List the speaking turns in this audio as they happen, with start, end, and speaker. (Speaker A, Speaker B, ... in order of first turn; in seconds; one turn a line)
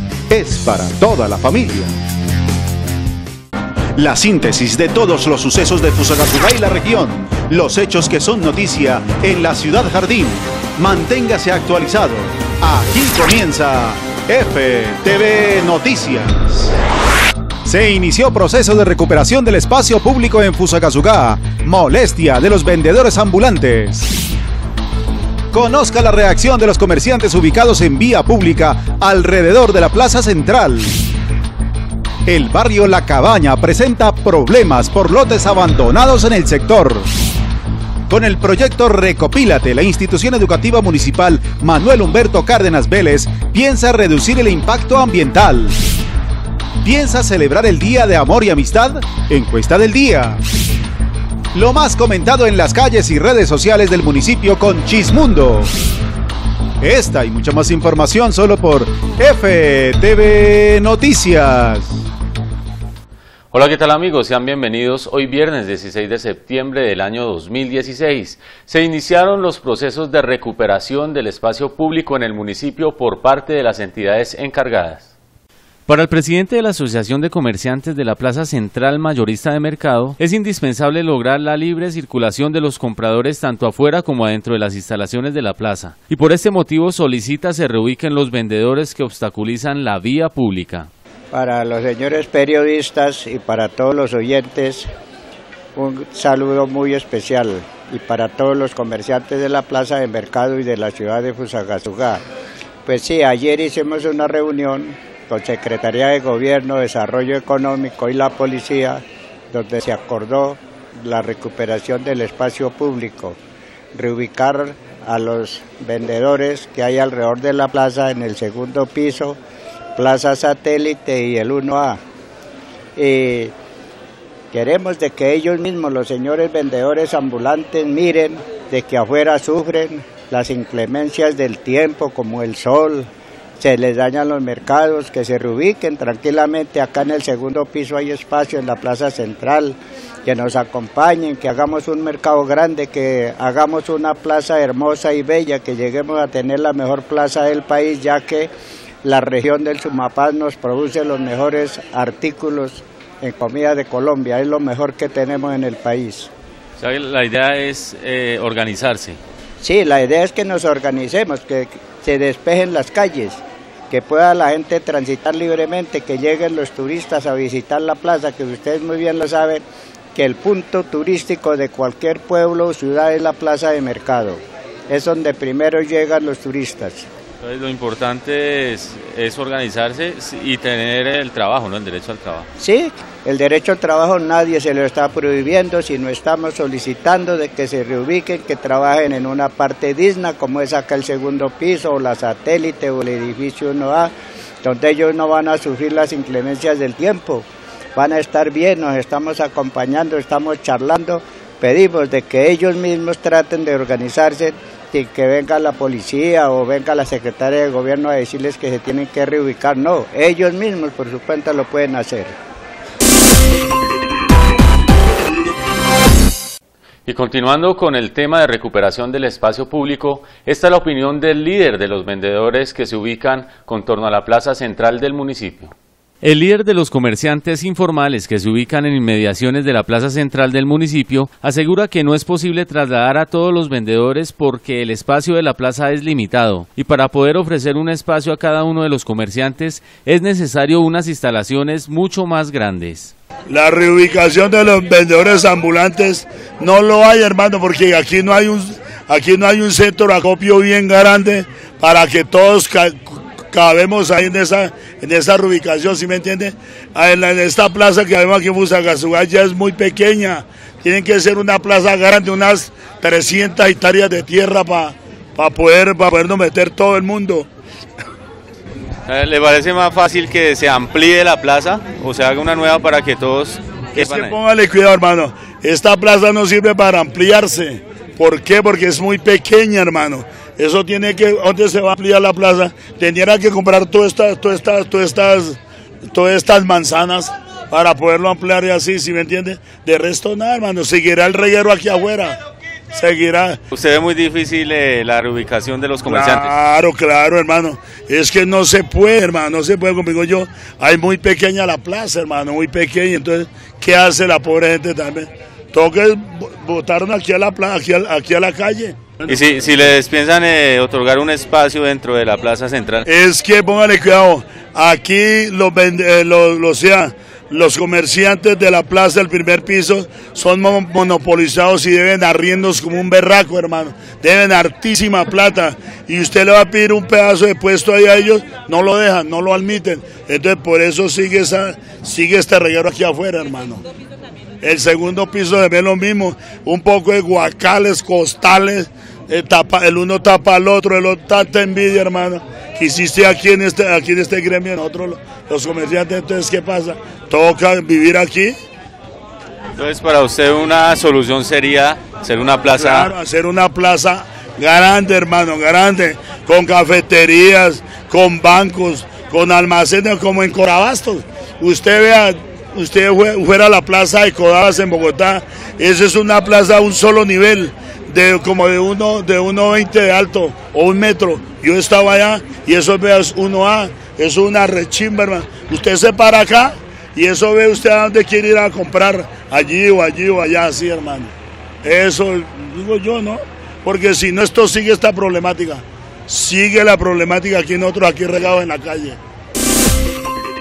Speaker A: 0.3-1.9
Speaker A: 4.0-16.7
Speaker A: 17.7-24.1
Speaker A: 25.5-31.0
Speaker A: 32.3-37.1
Speaker A: 38.1-45.8
Speaker A: 46.8-50.4
Speaker A: 51.5-55.7
Speaker A: 56.8-62.1
Speaker B: 63.5-75.1
Speaker B: 75.9-90.9
Speaker C: 91.3-94.9
Speaker C: 95.8-102.2
Speaker C: 102.8-113.4
Speaker C: 113.9-119.4
Speaker C: 120.0-122.0
Speaker C: 123.0-123.5
Speaker C: 124.5-148.5
Speaker C: 149.0-156.3
Speaker B: 156.8-159.2
Speaker C: 159.6-169.6
Speaker C: 170.2-177.1
Speaker B: 177.4-182.5
Speaker C: 182.6-194.1
Speaker C: 194.6-197.4
Speaker C: 198.0-212.3
Speaker B: 217.1-243.1
Speaker D: 243.5-267.5
Speaker B: 269.1-274.4
Speaker D: 273.9-292.4
Speaker D: 292.9-293.6
Speaker B: 293.7-296.5
Speaker D: 296.1-309.7
Speaker B: 309.3-313.1
Speaker D: 313.1-333.8
Speaker D: 334.6-348.6
Speaker B: 349.8-353.1
Speaker D: 352.7-389.2